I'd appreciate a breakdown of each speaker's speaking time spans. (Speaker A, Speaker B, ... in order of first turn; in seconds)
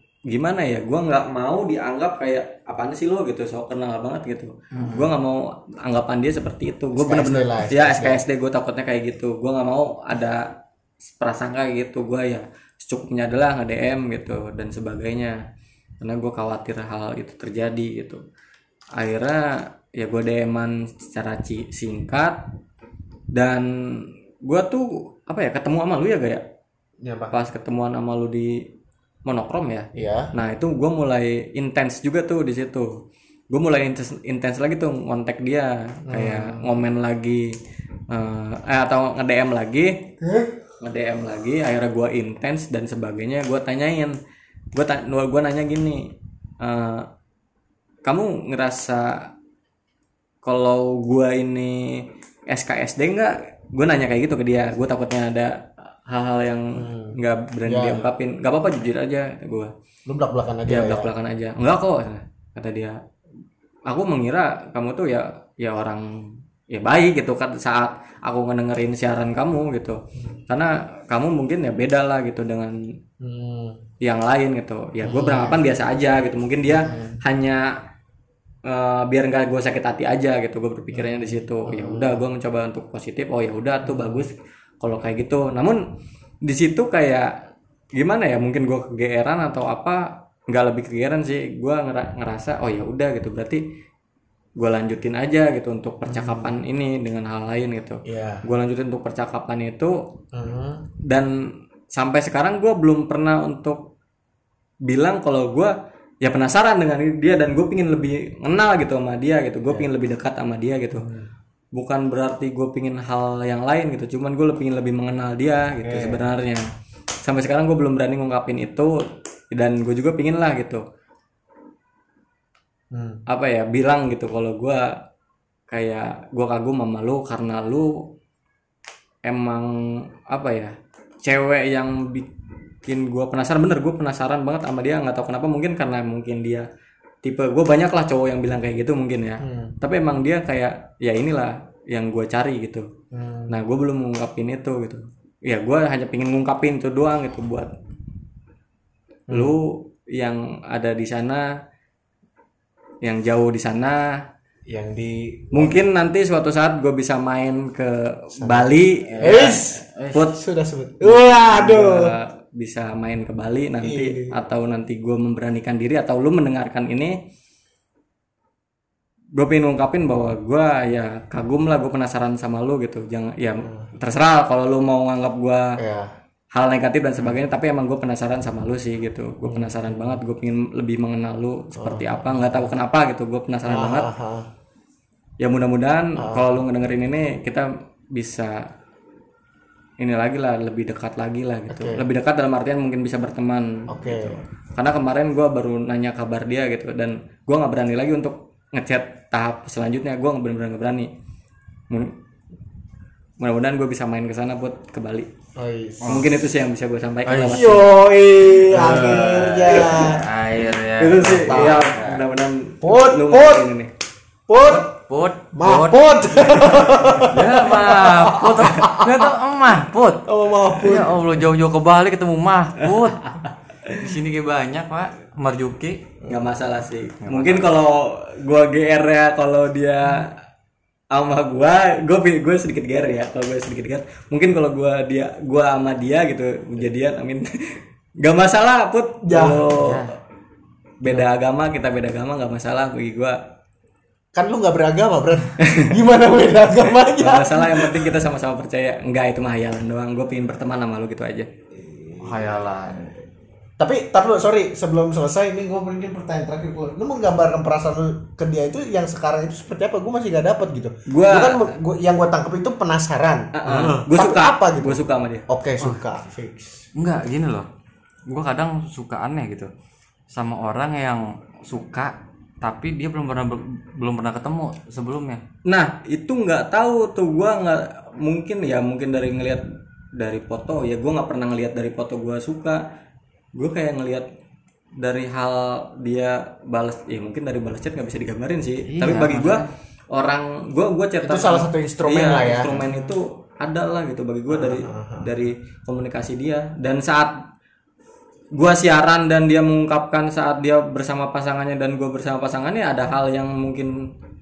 Speaker A: 0.3-10.5, 11.1-15.4, 16.0-18.2, 19.0-22.4, 23.3-26.4, 27.3-28.6, 29.2-32.9, 33.5-37.5, 38.1-39.9, 40.8-44.1, 44.7-46.0, 46.6-47.0, 48.0-49.2, 50.4-59.7, 60.6-63.0, 63.9-66.1, 66.7-70.0, 70.5-72.8, 74.0-77.7, 78.7-85.8, 86.4-87.3, 87.9-93.6, 94.6-100.0, 101.1-101.3, 101.9-103.9, 104.9-111.1, 111.7-116.7, 117.2-119.0, 119.5-120.8, 123.3-124.9, 125.7-128.0, 129.2-129.7, 130.3-132.3, 132.8-136.7, 137.2-142.9, 143.5-147.7, 149.3-151.5, 153.0-154.2, 155.5-160.4, 161.0-167.1, 169.3-175.7, 176.5-184.1, 185.4-188.6, 190.0-201.1, 203.4-205.3, 206.1-207.8, 209.7-210.1, 211.0-213.9, 223.0-224.1, 226.3-230.3, 231.1-237.5, 238.2-240.0, 241.0-243.4, 245.6-245.9, 247.2-251.5, 261.1-261.7, 263.5-265.4, 275.6-279.6, 280.1-282.8, 283.5-284.3, 285.0-297.3, 298.5-303.9
Speaker B: 7.0-8.2, 27.0-27.3, 29.9-30.3, 36.1-36.8, 40.2-40.5, 56.7-58.1, 60.1-61.1, 73.2-73.8, 75.0-75.6, 76.7-77.2, 80.9-82.2, 83.8-84.2, 96.0-96.5, 98.0-98.4, 100.3-100.8, 111.0-111.3, 115.7-116.3, 122.9-123.2, 139.4-139.7, 143.1-143.6, 149.3-149.5, 154.7-155.8, 158.4-162.1, 163.8-164.3, 173.6-173.9, 175.8-176.1, 179.4-180.2, 181.8-182.7, 183.6-184.5, 186.2-186.6, 191.7-192.0, 193.9-194.4, 205.6-206.3, 207.5-210.3, 211.0-211.9, 212.8-213.7, 214.5-214.9, 215.5-219.3, 220.2-221.4, 239.2-239.9, 244.3-248.2, 251.7-252.6, 253.8-266.9, 291.2-293.1, 294.5-295.3
Speaker C: 159.1-160.3, 207.2-207.7, 208.6-212.2, 214.6-226.1, 227.2-227.7, 239.8-240.1, 252.2-253.1, 266.9-267.7, 268.2-269.7, 270.3-275.4, 288.9-289.7